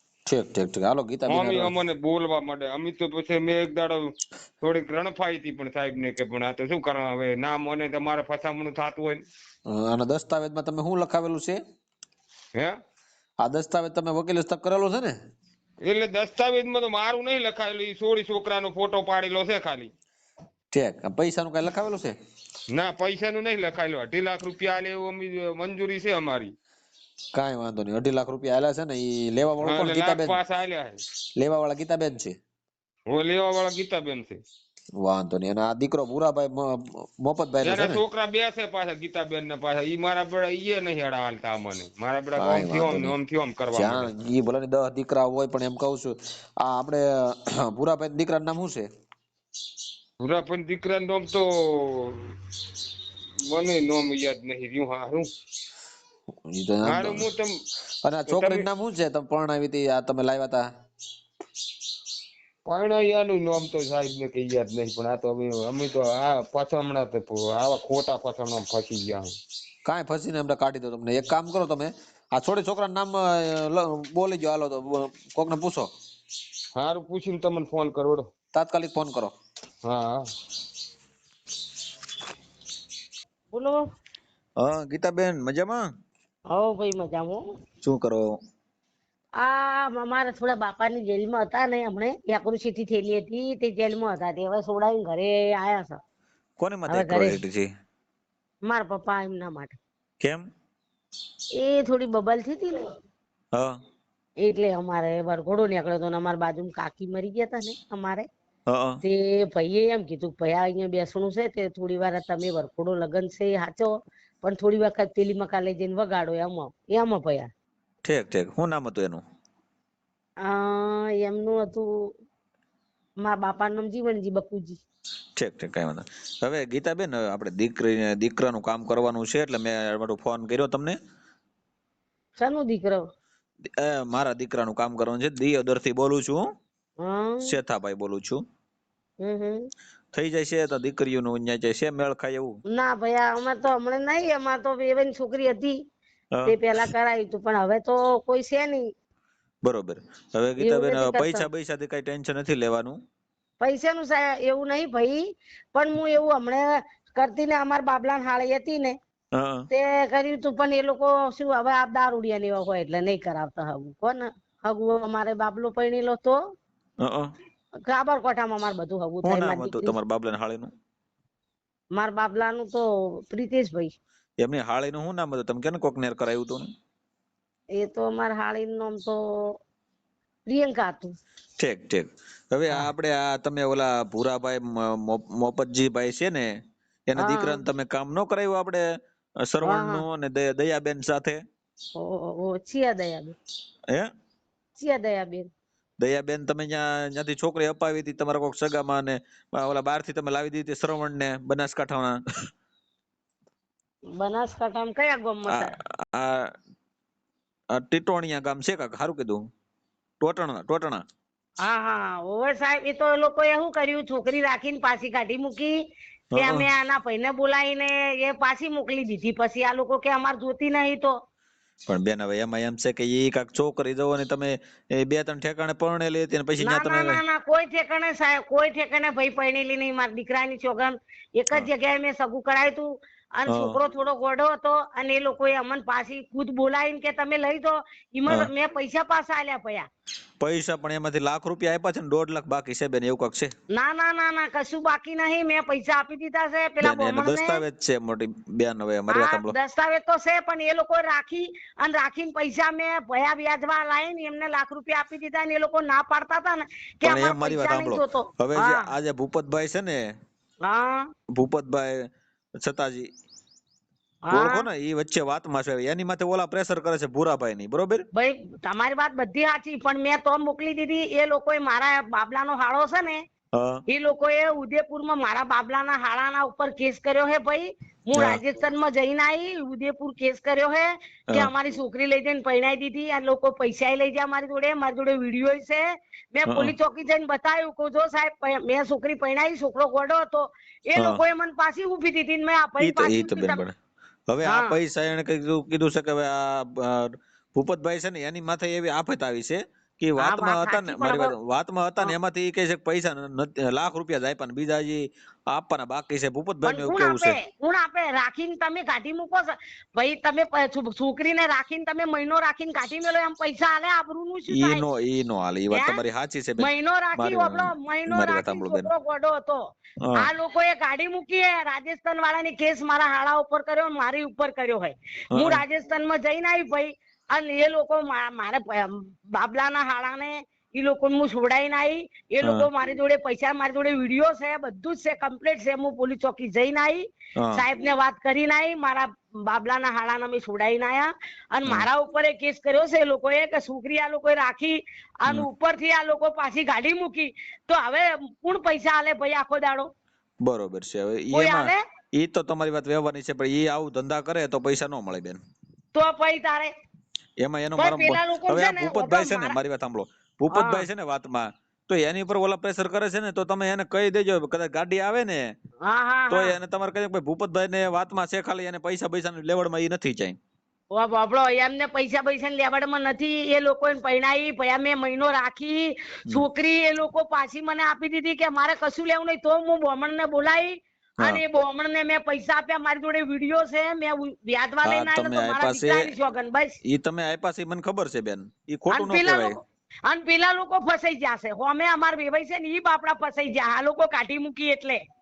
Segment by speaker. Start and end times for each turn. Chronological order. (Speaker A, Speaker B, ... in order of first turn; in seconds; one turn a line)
Speaker A: 0.3-1.7
Speaker B: 1.3-9.2
Speaker A: 9.7-11.6
Speaker A: 13.4-15.2
Speaker B: 15.8-19.9
Speaker A: 20.7-22.1
Speaker B: 22.7-26.5
Speaker A: 27.3-30.4
Speaker B: 29.6-31.0
Speaker A: 31.4-32.4
Speaker B: 33.1-34.4
Speaker A: 35.0-38.0
Speaker B: 37.6-44.1
Speaker A: 42.4-43.1
Speaker A: 43.7-48.9
Speaker B: 50.2-52.4
Speaker B: 53.4-55.3
Speaker A: 56.5-57.3
Speaker B: 56.8-57.6
Speaker A: 58.0-60.7
Speaker B: 58.3-58.7
Speaker B: 62.7-69.3
Speaker A: 69.8-75.9
Speaker B: 76.8-78.3
Speaker A: 78.5-79.3
Speaker B: 79.8-80.3
Speaker C: 83.5-83.8
Speaker A: 84.6-85.9
Speaker C: 86.5-87.4
Speaker A: 87.8-88.4
Speaker C: 89.4-96.0
Speaker A: 96.6-97.7
Speaker C: 96.9-97.4
Speaker C: 98.7-99.8
Speaker A: 100.2-100.5
Speaker C: 101.6-103.0
Speaker A: 103.5-103.8
Speaker C: 104.4-108.3
Speaker A: 108.7-109.0
Speaker C: 109.0-117.5
Speaker A: 118.0-119.2
Speaker C: 120.4-122.1
Speaker C: 123.2-124.8
Speaker A: 125.4-131.0
Speaker C: 132.4-133.1
Speaker A: 133.7-136.5
Speaker C: 137.0-137.6
Speaker A: 137.4-138.4
Speaker C: 139.2-139.7
Speaker A: 140.1-142.6
Speaker C: 142.7-145.8
Speaker C: 146.5-148.9
Speaker A: 149.6-153.0
Speaker C: 150.6-151.5
Speaker C: 153.6-159.0
Speaker A: 159.3-159.7
Speaker C: 159.7-166.4
Speaker A: 167.0-167.3
Speaker C: 167.9-170.0
Speaker A: 169.2-170.7
Speaker C: 171.9-173.9
Speaker A: 174.4-176.7
Speaker C: 177.8-179.2
Speaker C: 180.5-181.2
Speaker A: 181.6-188.9
Speaker C: 187.2-187.6
Speaker A: 189.4-191.4
Speaker C: 189.6-190.0
Speaker C: 192.0-193.4
Speaker C: 194.8-195.5
Speaker A: 196.0-202.5
Speaker C: 204.2-205.8
Speaker A: 205.5-206.6
Speaker A: 207.7-209.4
Speaker A: 210.2-211.0
Speaker C: 211.6-215.8
Speaker A: 216.3-216.7
Speaker C: 216.4-221.2
Speaker A: 221.9-227.2
Speaker C: 226.6-239.9
Speaker A: 233.5-233.8
Speaker A: 240.4-243.5
Speaker C: 243.7-247.6
Speaker A: 246.8-249.6
Speaker C: 249.1-258.9
Speaker A: 257.0-260.1
Speaker C: 260.6-261.1
Speaker A: 261.3-263.1
Speaker C: 264.3-264.7
Speaker A: 264.3-268.1
Speaker C: 268.1-273.2
Speaker A: 273.6-273.8
Speaker C: 273.9-285.8
Speaker A: 278.1-278.4
Speaker C: 286.4-293.6
Speaker A: 286.5-286.7
Speaker A: 292.8-293.8
Speaker A: 294.3-307.4
Speaker C: 294.4-294.8
Speaker C: 300.2-301.3
Speaker C: 306.6-314.9
Speaker A: 314.5-318.9
Speaker C: 315.7-316.0
Speaker C: 316.6-349.9
Speaker A: 320.0-320.3
Speaker A: 325.4-325.6
Speaker A: 332.4-332.7
Speaker A: 337.4-337.6
Speaker A: 350.4-355.4
Speaker C: 351.3-351.8
Speaker C: 355.9-356.7
Speaker A: 357.4-365.6
Speaker C: 357.8-359.6
Speaker C: 360.5-360.9
Speaker C: 365.8-366.6
Speaker A: 366.3-370.4
Speaker C: 370.9-386.8
Speaker A: 384.8-386.1
Speaker A: 386.8-389.6
Speaker C: 388.9-395.0